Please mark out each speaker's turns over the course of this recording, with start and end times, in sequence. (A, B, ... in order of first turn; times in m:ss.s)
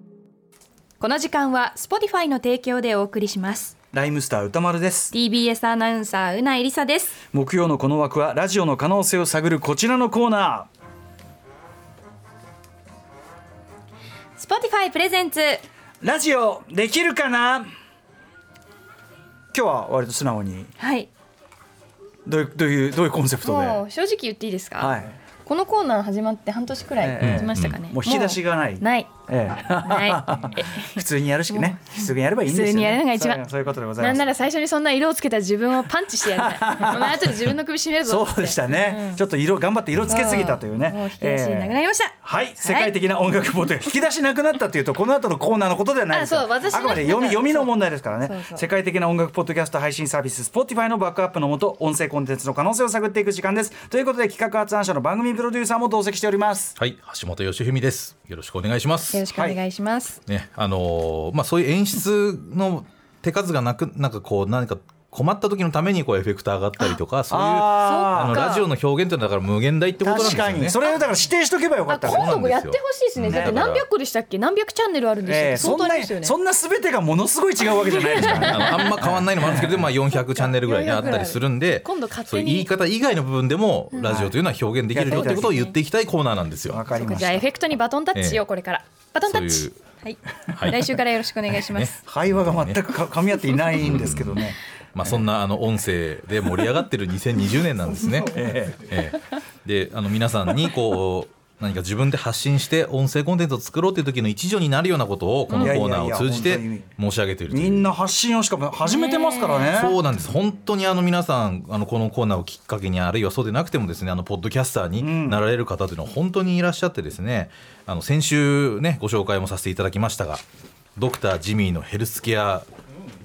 0:01.0-0:03.7 A
0:03.9-0:05.1 B
0:05.1-0:07.2 A
0:07.3-0:10.7 B
0:14.4-0:15.6 A
0:16.0-0:17.6 B
0:19.5-0:20.7 B
0:20.8-0:21.1 A
0:22.2-0:23.8 B
0:23.4-0:29.1 A
0:24.8-0:25.1 B
0:27.0-0:34.2 B
0:27.2-0:27.8 C
0:29.6-0:33.4 A
0:34.0-0:39.2 A
0:36.2-0:37.4 B
0:38.0-0:56.8 B
0:40.1-0:42.9 A
0:46.1-0:48.6 A
0:56.8-0:59.2 C
0:59.1-1:00.2 A
0:59.3-0:59.6 B
1:00.3-1:10.8 C
1:07.3-1:08.5 B
1:07.7-1:08.6 A
1:10.0-1:12.3 B
1:11.9-1:16.3 A
1:12.0-1:13.8 C
1:13.2-1:13.6 B
1:15.2-1:19.9 B
1:17.8-1:19.0 A
1:18.1-1:26.8 C
1:20.1-1:22.7 A
1:24.0-1:24.4 B
1:24.9-1:25.7 B
1:25.0-1:25.7 A
1:26.7-1:27.5 B
1:26.9-1:31.9 A
1:28.1-1:28.4 C
1:29.2-1:29.8 C
1:30.5-1:30.9 C
1:31.6-1:32.8 C
1:32.0-1:34.6 B
1:33.8-1:47.9 C
1:38.2-1:38.9 B
1:45.5-1:45.8 A
1:45.6-1:46.9 B
1:47.5-1:50.0 B
1:48.8-1:49.8 A
1:49.7-2:00.4 C
1:55.0-1:55.4 B
2:01.0-2:02.7 C